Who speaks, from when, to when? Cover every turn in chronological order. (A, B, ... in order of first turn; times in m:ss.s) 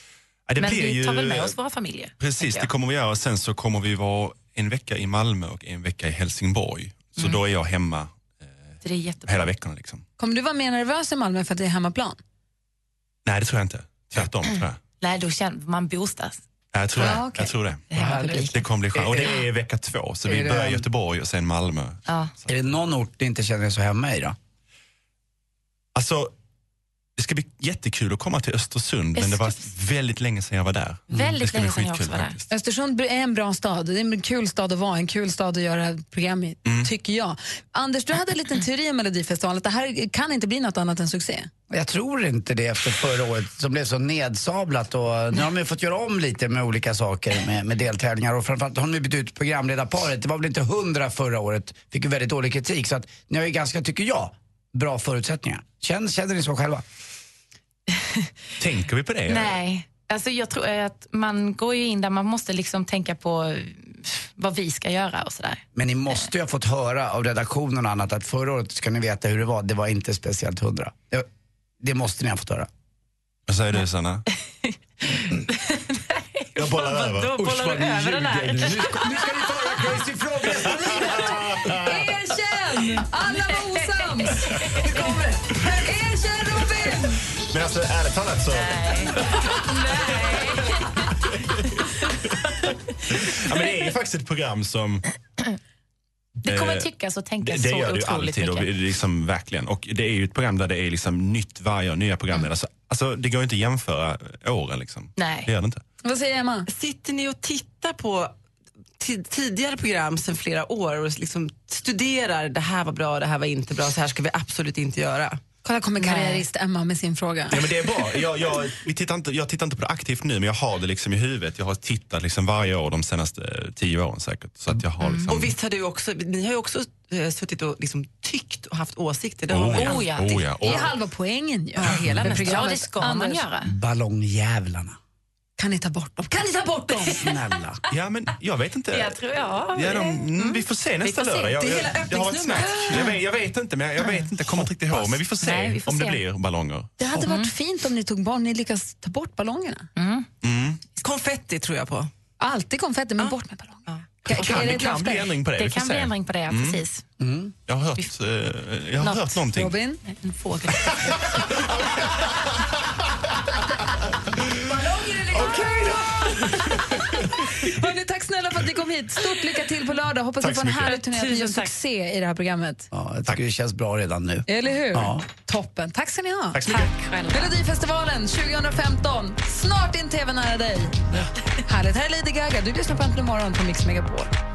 0:00.5-0:01.5 A
0:00.6-0:02.7 B
0:02.2-0:08.7 A
0:08.8-0:09.5 B
0:09.2-0:10.0 A
0:10.2-0:12.2 C
0:13.2-0:14.8 A
0:15.0-0:16.4 B
0:16.7-0:22.0 A
0:17.0-0:17.5 C
0:17.9-0:18.6 B
0:18.0-0:19.3 D
0:20.2-0:20.8 D
0:22.5-0:24.4 D
0:25.9-0:26.3 A
0:27.2-0:32.4 A
0:29.2-0:29.7 B
0:31.1-0:32.4 B
0:32.5-0:41.5 C
0:36.6-0:36.9 A
0:41.7-0:56.8 D
0:58.6-0:59.6 A
0:59.3-1:05.6 B
1:05.7-1:11.3 D
1:11.8-1:12.7 D
1:13.5-1:14.2 A
1:14.6-1:19.3 B
1:16.6-1:17.4 A
1:17.4-1:21.3 D
1:20.7-1:22.1 A
1:21.7-1:27.2 C
1:23.4-1:24.1 B
1:27.4-1:29.5 A
1:28.5-1:31.1 B
1:30.0-1:30.6 A
1:31.2-1:32.3 A
1:33.1-1:35.0 A
1:36.4-1:38.7 B
1:36.4-1:36.9 A
1:37.4-1:45.8 A
1:45.2-1:45.5 B
1:46.0-1:46.7 C
1:46.7-1:48.3 E
1:49.0-1:55.4 E
1:55.6-1:57.6 C
1:56.0-1:56.4 B
1:57.5-2:05.5 A
2:05.0-2:05.3 B
2:05.3-2:10.1 E
2:09.5-2:10.9 A
2:09.7-2:10.5 B
2:10.6-2:13.4 C
2:11.8-2:12.6 E
2:11.9-2:13.7 B
2:13.6-2:15.0 D
2:15.6-2:17.2 C
2:17.1-2:17.8 D
2:17.9-2:26.9 A
2:18.9-2:23.2 B
2:21.6-2:23.0 E
2:24.0-2:26.2 B
2:27.0-2:29.9 C
2:27.2-2:27.5 B
2:30.0-2:30.3 B
2:30.4-2:30.8 A
2:31.0-2:32.1 E
2:32.4-2:35.3 C
2:34.2-2:36.8 A
2:35.6-2:37.0 B
2:37.2-2:37.5 D
2:37.7-2:39.7 A
2:39.0-2:39.4 B
2:39.5-2:40.0 C
2:40.0-2:41.3 B
2:41.1-2:42.3 A
2:44.7-2:52.9 C
2:50.4-2:50.9 A
2:50.9-2:51.7 B
2:52.9-2:55.2 D
2:54.5-2:56.8 C
2:56.5-2:56.9 A
2:56.6-2:57.5 B
2:57.3-3:04.3 C